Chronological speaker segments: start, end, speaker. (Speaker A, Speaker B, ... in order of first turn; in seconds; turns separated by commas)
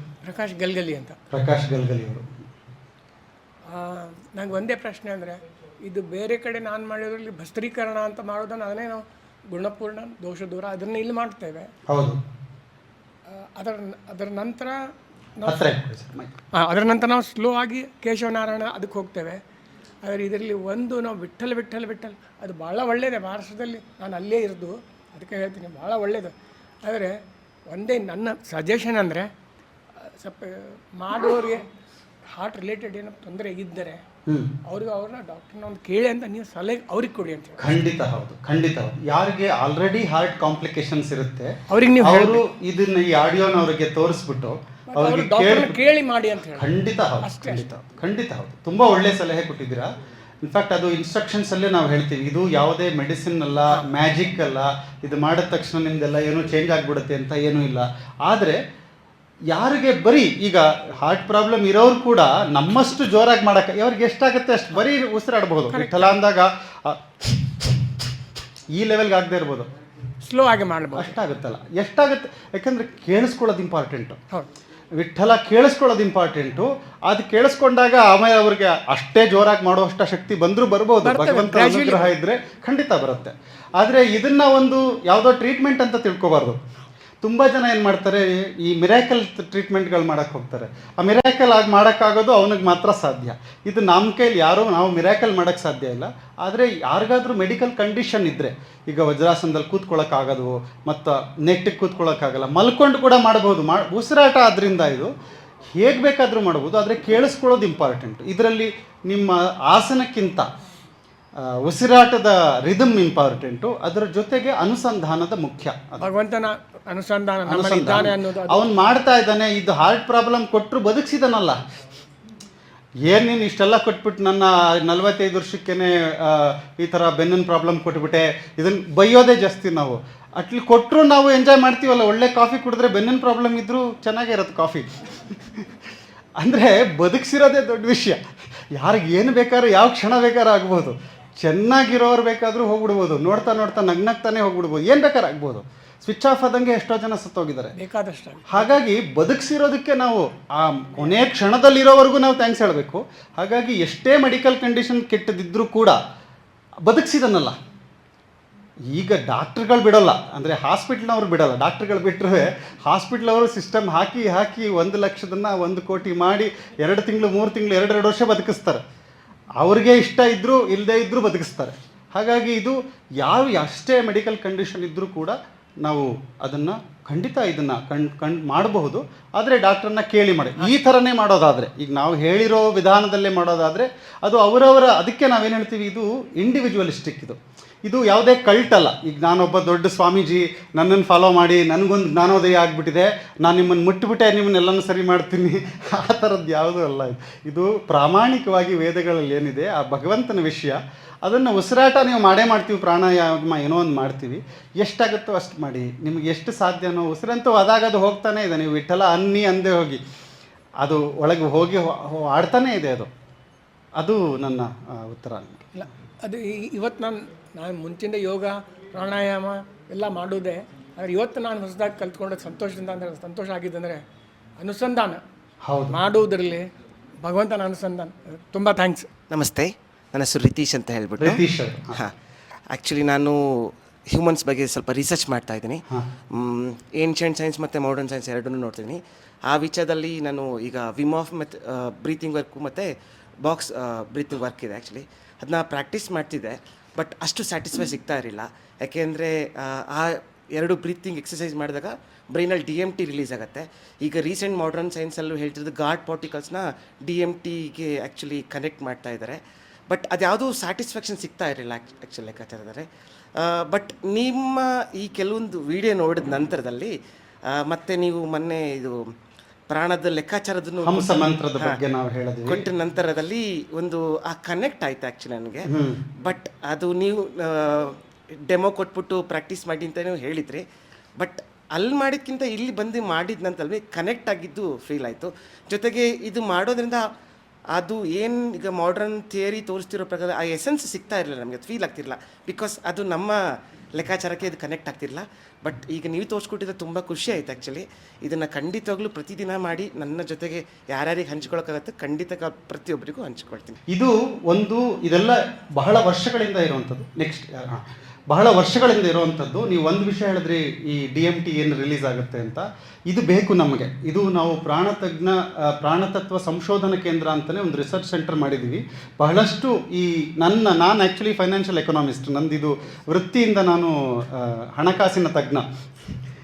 Speaker A: 0.2-1.2, Speaker B: 1.3-2.2, Speaker A: 3.7-11.7, Speaker B: 11.9-12.2, Speaker A: 13.3-14.8, Speaker A: 15.4-15.7, Speaker B: 15.4-16.4, Speaker A: 16.5-19.4, Speaker A: 20.0-26.3, Speaker A: 26.8-27.1, Speaker A: 27.7-29.3, Speaker A: 30.1-31.6, Speaker A: 32.3-34.0, Speaker B: 34.3-34.5, Speaker A: 34.7-37.7, Speaker B: 37.6-45.8, Speaker A: 41.7-42.4, Speaker A: 44.9-47.6, Speaker B: 46.5-49.9, Speaker B: 50.4-58.6, Speaker B: 59.5-67.7, Speaker A: 65.7-66.2, Speaker B: 68.7-69.7, Speaker A: 70.2-71.2, Speaker B: 71.0-74.2, Speaker B: 75.0-86.6, Speaker A: 81.0-82.1, Speaker B: 87.2-105.1, Speaker B: 105.7-110.5, Speaker B: 111.4-116.0, Speaker A: 116.0-118.6, Speaker B: 117.5-121.6, Speaker B: 123.0-135.7, Speaker B: 136.4-138.2, Speaker B: 138.7-147.7, Speaker A: 147.8-148.7, Speaker B: 148.5-156.0, Speaker B: 156.8-157.5, Speaker B: 158.9-168.8, Speaker B: 169.6-210.0, Speaker B: 210.8-213.1, Speaker B: 213.9-215.7, Speaker A: 215.8-224.0, Speaker A: 224.6-225.2, Speaker B: 225.6-226.0, Speaker A: 225.9-226.7, Speaker A: 227.2-229.1, Speaker C: 229.3-231.4, Speaker B: 231.2-232.0, Speaker C: 232.7-242.9, Speaker C: 243.4-262.9, Speaker C: 263.4-266.9, Speaker C: 267.5-269.1, Speaker C: 269.7-271.8, Speaker B: 270.8-272.7, Speaker C: 272.4-275.7, Speaker B: 275.6-276.0, Speaker C: 276.2-280.6, Speaker C: 281.2-287.1, Speaker C: 287.7-293.4, Speaker C: 293.9-303.8, Speaker B: 303.9-325.6